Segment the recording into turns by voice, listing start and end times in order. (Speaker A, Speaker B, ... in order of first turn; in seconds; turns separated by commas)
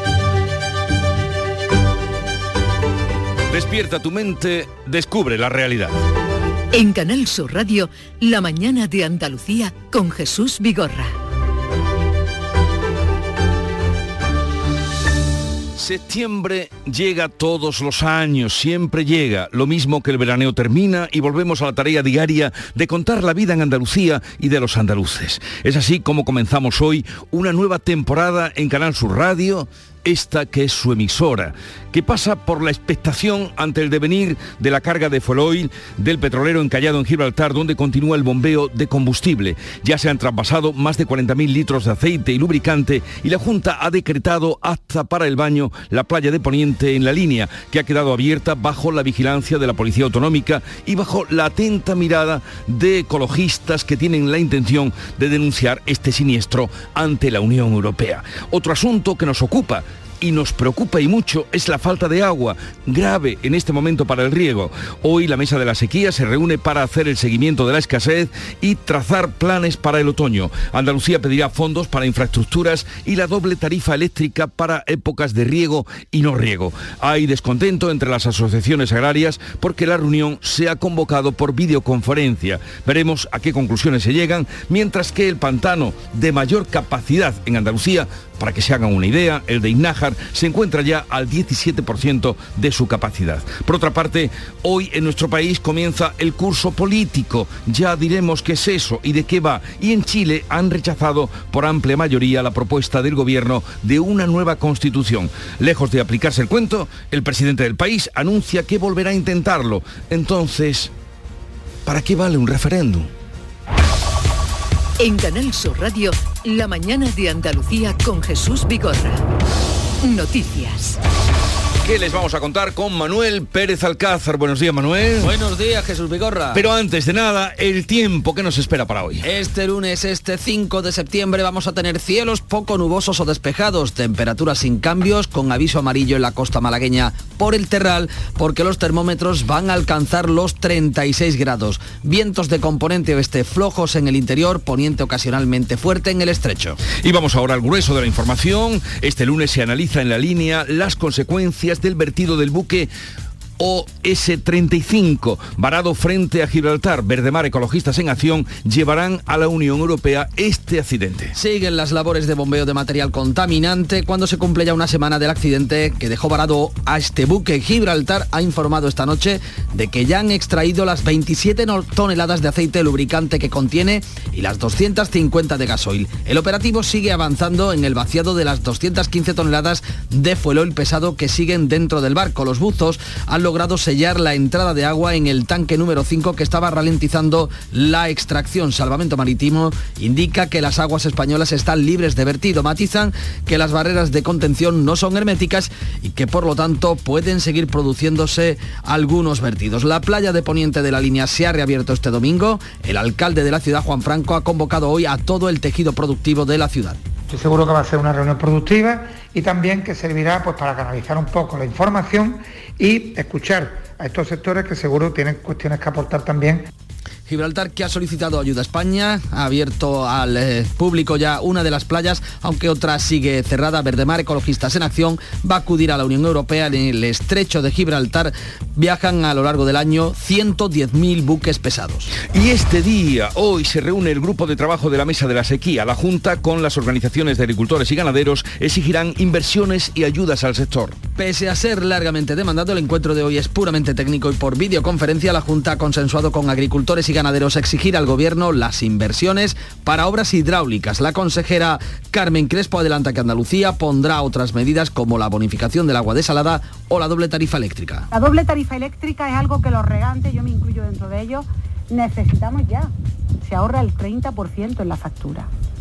Speaker A: 3.5-6.0, Speaker B: 6.7-11.2, Speaker A: 15.8-110.9, Speaker A: 111.9-113.1, Speaker B: 115.0-119.2, Speaker B: 120.0-121.0, Speaker A: 121.8-125.3, Speaker C: 125.2-126.6, Speaker A: 126.5-129.3, Speaker C: 129.2-146.8, Speaker A: 146.9-152.9, Speaker A: 153.6-161.3, Speaker C: 161.3-207.0, Speaker D: 207.3-216.7, Speaker C: 217.3-232.1, Speaker A: 232.3-241.0, Speaker C: 241.2-258.1, Speaker E: 258.1-262.9, Speaker E: 263.4-265.5